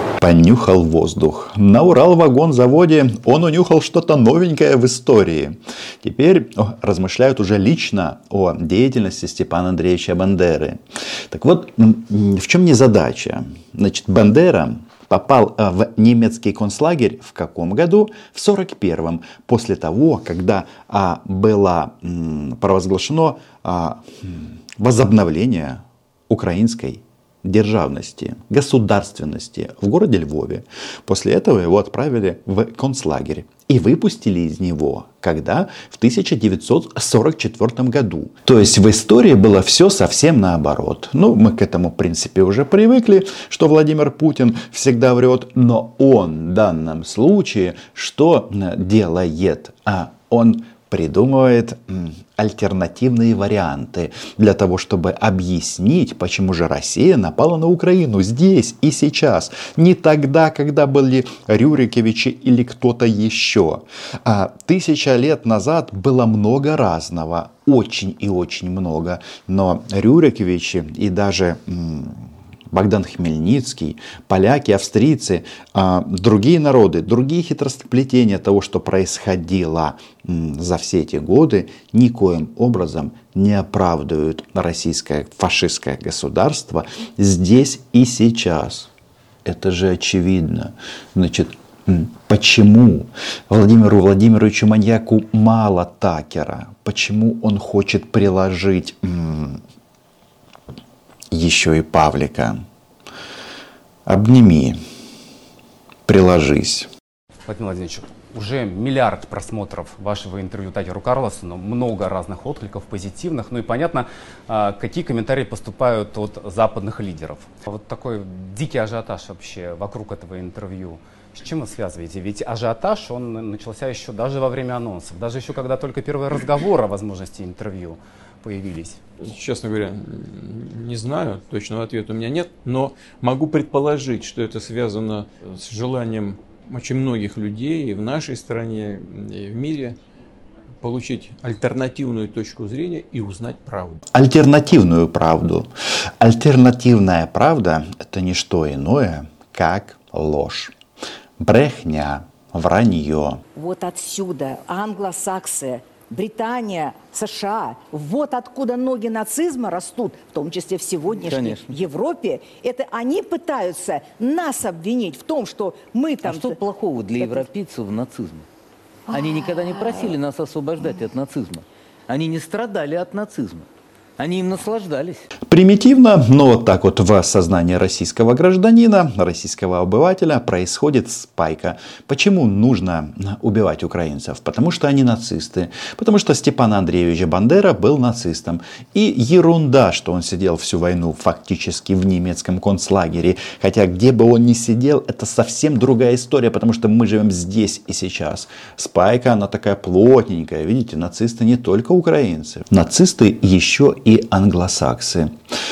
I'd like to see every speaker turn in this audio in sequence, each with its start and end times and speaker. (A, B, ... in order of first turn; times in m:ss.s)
0:00.2-1:28.9 A
1:29.4-1:39.6 A
1:41.3-1:42.6 A
1:44.1-1:44.8 A
1:46.1-1:46.9 A
1:47.5-2:09.0 B
2:09.2-2:20.0 C
2:20.8-2:24.0 C
2:24.1-2:30.7 A
2:31.4-2:33.4 A
2:33.6-2:46.6 D
2:41.2-2:41.8 E
2:46.2-2:48.5 E
2:47.2-2:47.5 D
2:49.1-2:53.7 E
2:49.5-2:50.1 D
2:54.2-2:55.3 E
2:55.5-3:25.3 A